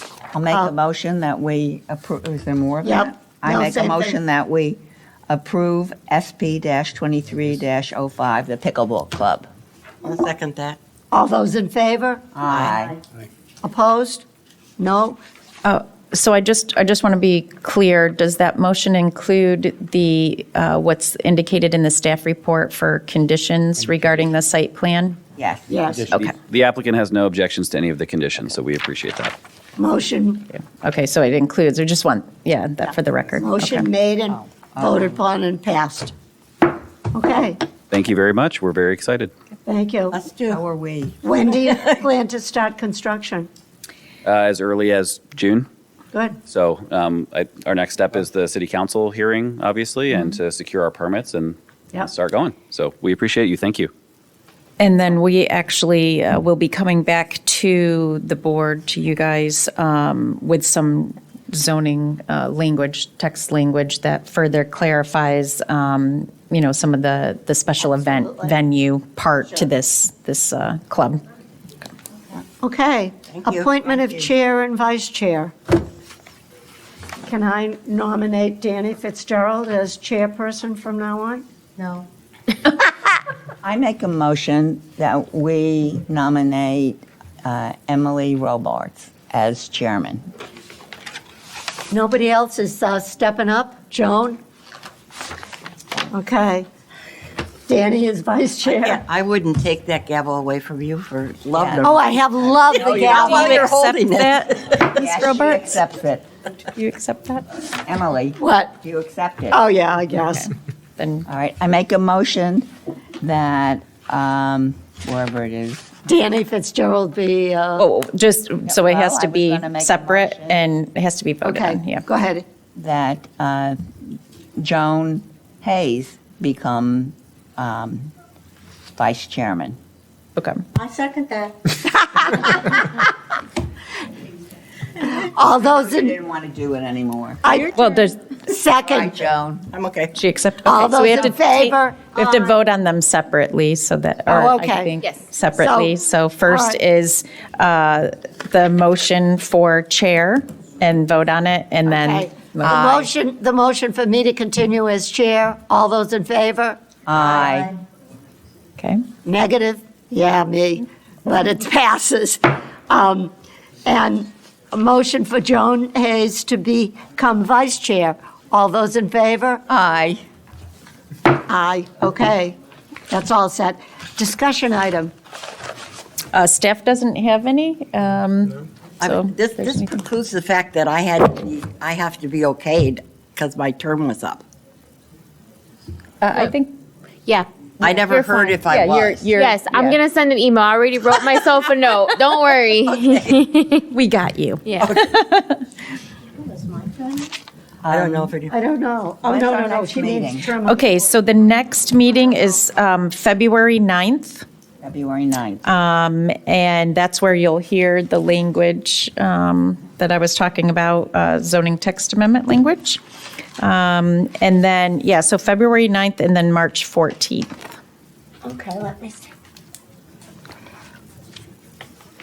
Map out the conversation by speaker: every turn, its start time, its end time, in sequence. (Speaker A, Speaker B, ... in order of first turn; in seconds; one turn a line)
Speaker A: 0.3-9.5
Speaker B: 2.8-4.2
Speaker C: 10.0-10.8
Speaker B: 11.1-12.2
Speaker A: 12.3-13.0
Speaker C: 12.5-12.8
Speaker B: 13.6-14.2
Speaker B: 14.8-15.2
Speaker D: 15.6-25.2
Speaker A: 25.4-25.7
Speaker B: 25.7-26.1
Speaker E: 25.9-29.3
Speaker B: 29.8-30.5
Speaker D: 30.5-33.9
Speaker B: 32.9-36.1
Speaker A: 34.3-35.1
Speaker B: 37.1-37.6
Speaker E: 37.9-39.3
Speaker B: 39.7-40.2
Speaker C: 40.1-40.6
Speaker A: 40.5-41.2
Speaker B: 41.2-43.5
Speaker E: 44.2-45.7
Speaker E: 46.5-53.9
Speaker D: 54.8-71.2
Speaker B: 68.0-68.5
Speaker B: 72.6-75.5
Speaker C: 73.3-73.7
Speaker B: 77.2-81.5
Speaker A: 83.6-90.2
Speaker B: 91.9-94.4
Speaker B: 96.1-96.7
Speaker B: 97.7-99.0
Speaker C: 98.7-104.8
Speaker A: 101.5-101.9
Speaker B: 101.8-103.7
Speaker D: 103.1-105.8
Speaker A: 104.8-106.3
Speaker D: 106.8-107.5
Speaker A: 107.8-109.6
Speaker B: 108.4-108.7
Speaker B: 109.5-110.5
Speaker D: 110.3-111.3
Speaker A: 111.3-112.7
Speaker A: 113.2-115.9
Speaker B: 116.1-117.9
Speaker D: 117.8-122.0
Speaker A: 118.7-120.6
Speaker B: 121.4-122.5
Speaker A: 122.8-128.1
Speaker A: 129.0-129.8
Speaker D: 130.3-130.6
Speaker B: 132.0-132.8
Speaker B: 135.2-136.2
Speaker A: 135.6-137.6
Speaker B: 137.4-137.8
Speaker D: 137.8-138.2
Speaker B: 138.4-139.2
Speaker A: 138.8-139.7
Speaker C: 139.7-140.2
Speaker D: 140.2-153.0
Speaker B: 140.6-142.5
Speaker B: 144.3-144.9
Speaker B: 145.5-145.9
Speaker B: 146.5-146.8
Speaker B: 151.9-156.8
Speaker A: 152.6-153.0
Speaker A: 157.1-157.8
Speaker B: 159.2-163.3
Speaker B: 163.8-169.6
Speaker A: 169.7-170.2
Speaker B: 171.3-172.6
Speaker B: 173.1-175.1
Speaker D: 176.3-179.9
Speaker C: 179.0-184.4
Speaker D: 186.2-186.7
Speaker C: 187.8-189.3
Speaker D: 187.8-190.0
Speaker F: 188.1-188.3
Speaker F: 189.3-193.8
Speaker C: 192.9-193.3
Speaker D: 193.9-195.6
Speaker F: 194.6-194.9
Speaker A: 197.8-198.3
Speaker C: 197.9-198.5
Speaker B: 198.5-201.0
Speaker A: 199.2-200.5
Speaker D: 200.7-204.4
Speaker A: 204.8-205.6
Speaker D: 205.6-213.0
Speaker D: 213.6-217.6
Speaker B: 218.4-219.1